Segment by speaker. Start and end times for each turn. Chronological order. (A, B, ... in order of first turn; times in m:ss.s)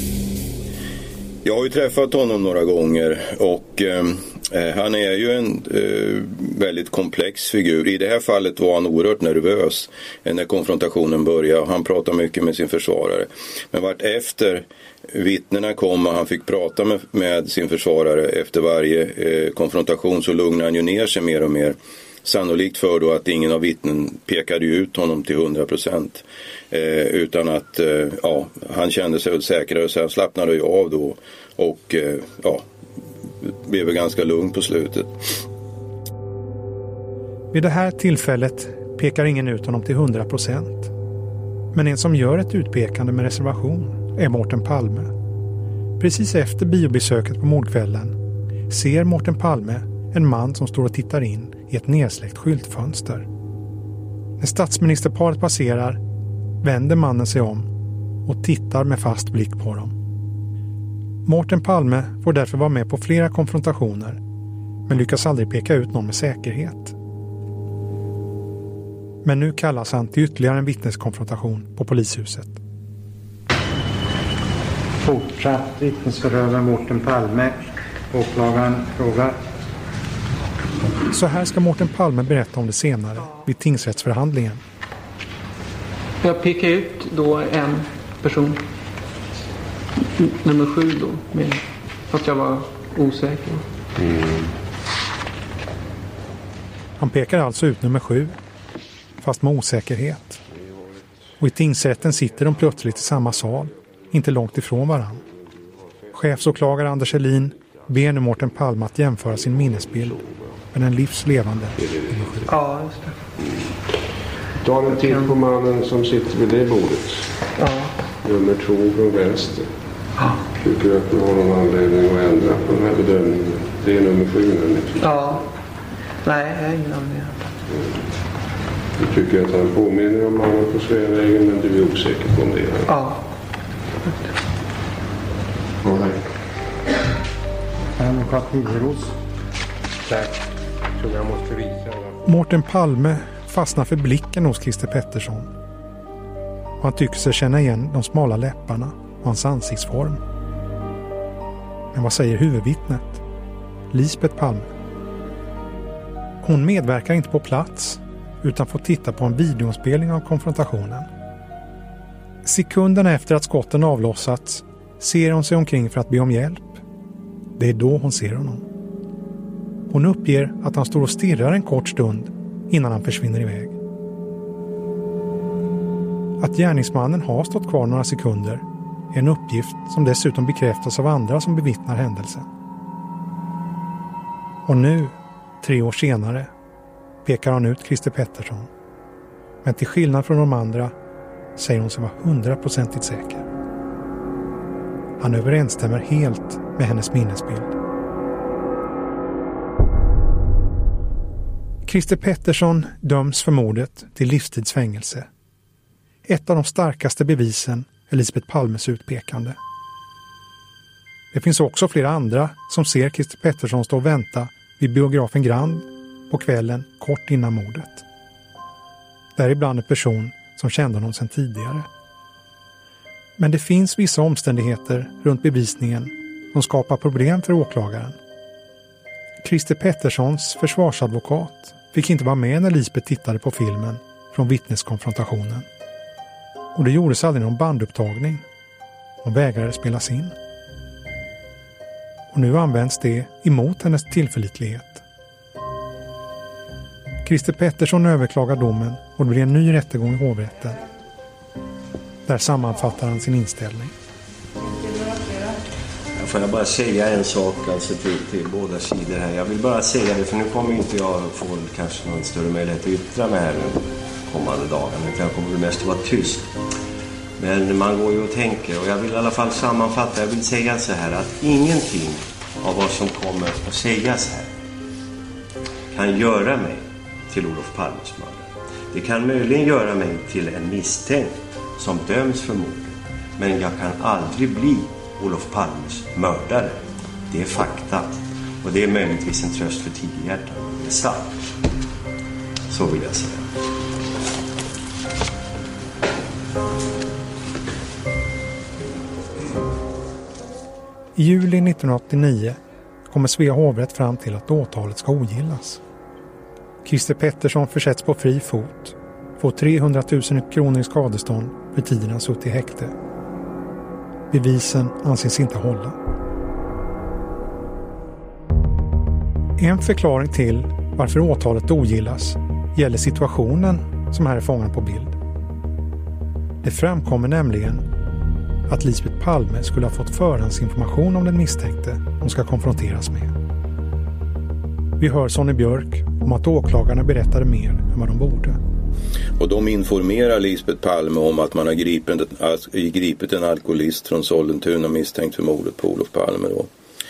0:01.4-0:32.7 A
0:33.4-0:35.4 A
0:37.5-0:40.9 B
0:41.7-0:45.1 B
0:46.0-0:48.1 B
0:48.7-0:53.2 B
0:54.4-0:56.0 B
0:56.6-0:57.7 B
0:58.2-0:59.9 B
1:01.2-1:04.2 B
1:04.9-1:07.0 B
1:09.2-1:12.6 B
1:15.0-1:19.4 C
1:21.1-1:24.6 B
1:26.2-1:28.6 D
1:30.1-1:33.6 D
1:34.0-1:34.5 E
1:37.0-1:38.3 B
1:39.2-1:40.4 B
1:41.4-1:45.2 B
1:46.1-1:52.5 B
1:52.5-1:53.1 D
1:54.6-1:57.3 E
1:54.9-1:55.3 D
1:57.6-1:57.9 D
1:58.2-1:59.7 E
2:00.6-2:05.1 E
2:05.0-2:05.4 D
2:06.2-2:07.4 D
2:07.7-2:08.1 E
2:09.0-2:12.9 E
2:12.9-2:13.2 D
2:15.8-2:16.2 E
2:18.0-2:19.1 C
2:20.0-2:20.4 C
2:21.0-2:22.2 C
2:22.2-2:25.5 B
2:26.8-2:30.2 B
2:31.9-2:33.2 B
2:33.9-2:34.7 B
2:36.4-2:41.1 B
2:42.4-2:46.8 B
2:47.6-2:48.6 B
2:49.9-2:53.8 B
2:56.4-3:02.5 B
3:04.6-3:06.5 B
3:07.2-3:08.7 B
3:09.6-3:10.9 B
3:11.6-3:13.4 B
3:15.2-3:17.7 B
3:21.8-3:25.3 B
3:26.2-3:29.6 B
3:31.3-3:38.0 B
3:39.4-3:41.9 B
3:43.4-3:48.2 B
3:49.4-3:55.6 B
3:56.7-3:58.4 B
3:59.2-4:00.3 B
4:02.3-4:05.0 B
4:07.2-4:10.8 B
4:12.2-4:13.9 B
4:16.2-4:26.5 F
4:27.4-4:34.5 F
4:35.9-4:51.3 F
4:52.7-4:53.5 F
5:01.2-5:02.6 B
5:03.1-5:05.8 B
5:06.8-5:12.9 B
5:14.3-5:16.0 B
5:19.6-5:25.2 B
5:26.6-5:27.8 B
5:28.7-5:33.3 B
5:35.0-5:38.6 B
5:39.4-5:46.7 A